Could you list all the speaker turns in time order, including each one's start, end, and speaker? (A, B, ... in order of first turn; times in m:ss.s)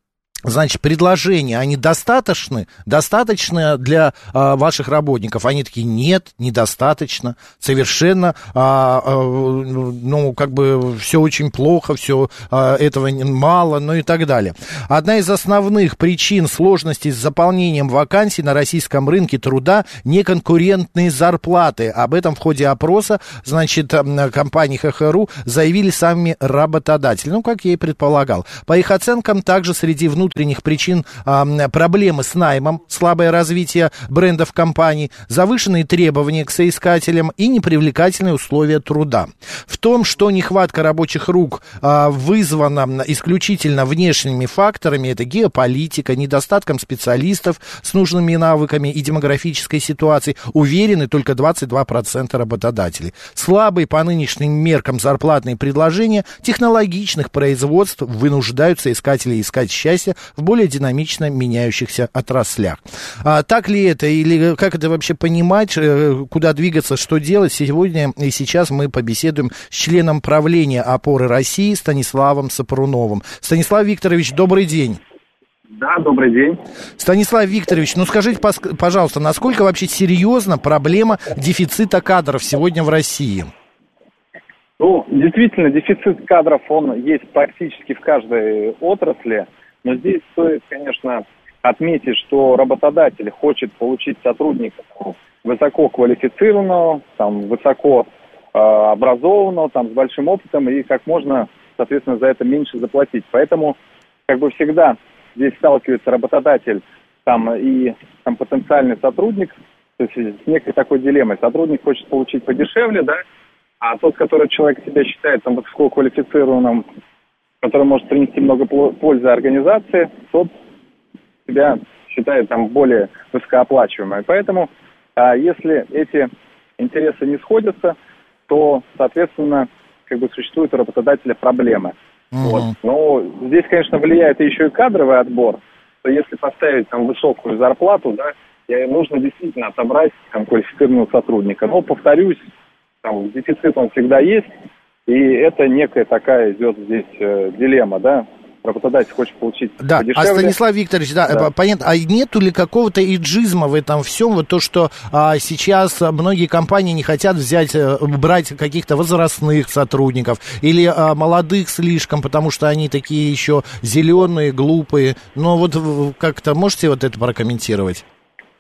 0:00.5-1:15.0 A
1:15.8-1:16.6 B
1:17.0-1:23.5 A
1:24.8-1:43.8 B
1:44.3-1:53.2 B
1:53.8-1:56.8 B
1:57.6-2:00.5 B
2:01.5-2:08.0 B
2:08.5-2:22.5 B
2:12.3-2:12.7 A
2:23.0-2:24.5 B
2:25.1-2:30.5 B
2:29.8-2:48.0 A